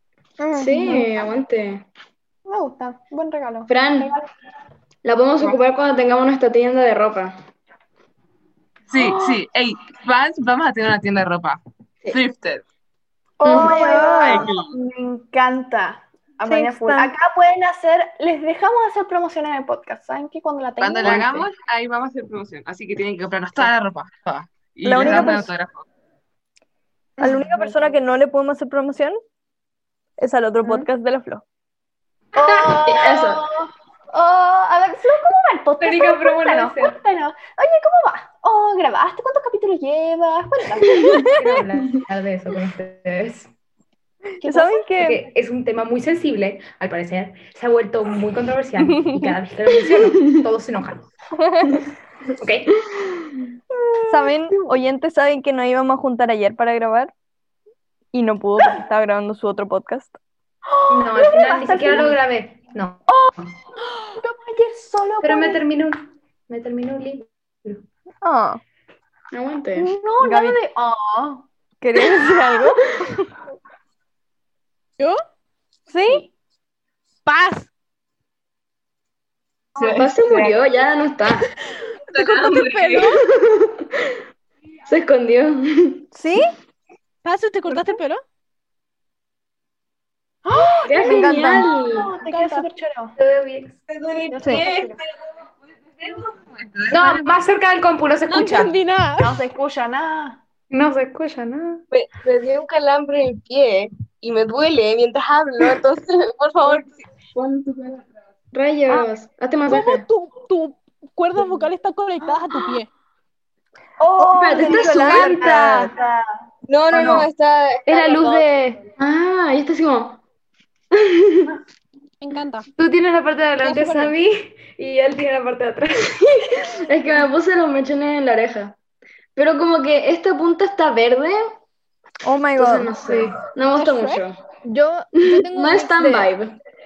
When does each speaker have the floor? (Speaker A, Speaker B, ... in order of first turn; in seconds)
Speaker A: 0.4-1.3, 2.5-4.3, 9.0-9.4, 13.4-21.5, 27.2-28.0, 30.6-30.9, 32.4-41.3, 44.4-44.9, 53.7-54.7, 60.7-62.2, 64.0-65.7, 69.8-71.5, 90.5-93.2, 94.3-95.0, 99.2-100.4, 114.0-116.3
Speaker B: 0.5-1.9, 3.7-4.2, 5.0-7.4, 13.4-13.8, 32.4-33.5, 69.3-69.9, 79.8-81.5, 83.0-84.2, 84.9-86.1, 90.8-92.1, 108.5-110.0, 114.3-115.5, 119.0-120.2, 120.9-121.5, 126.6-128.8, 129.4-131.6, 132.6-134.4, 135.2-136.6
Speaker C: 8.9-12.6, 14.0-14.7, 20.8-25.9, 79.8-80.6, 82.1-83.2, 96.6-97.2
Speaker D: 13.5-14.5, 16.4-17.1, 24.9-25.5, 27.2-29.2, 30.2-31.4, 44.4-45.2, 51.4-51.8, 54.1-57.1, 58.1-60.2, 68.2-68.6, 70.2-70.6, 71.8-73.0, 75.9-76.2, 82.4-82.9, 86.1-86.5, 91.0-91.7, 114.5-115.9, 116.7-118.4, 132.2-132.9, 134.7-136.3
Speaker E: 35.8-37.0, 41.2-43.5, 45.0-51.1, 52.4-52.8, 60.9-63.0, 65.2-67.8, 93.2-93.8, 96.9-98.8, 100.7-101.8, 117.9-118.8, 122.8-126.6, 133.0-133.5
Speaker F: 77.3-77.7, 87.2-88.2, 92.3-92.7, 98.3-99.4, 109.7-112.9, 122.2-122.7, 123.6-124.2, 133.8-134.2
Speaker G: 93.9-95.0, 101.9-108.0, 116.9-117.3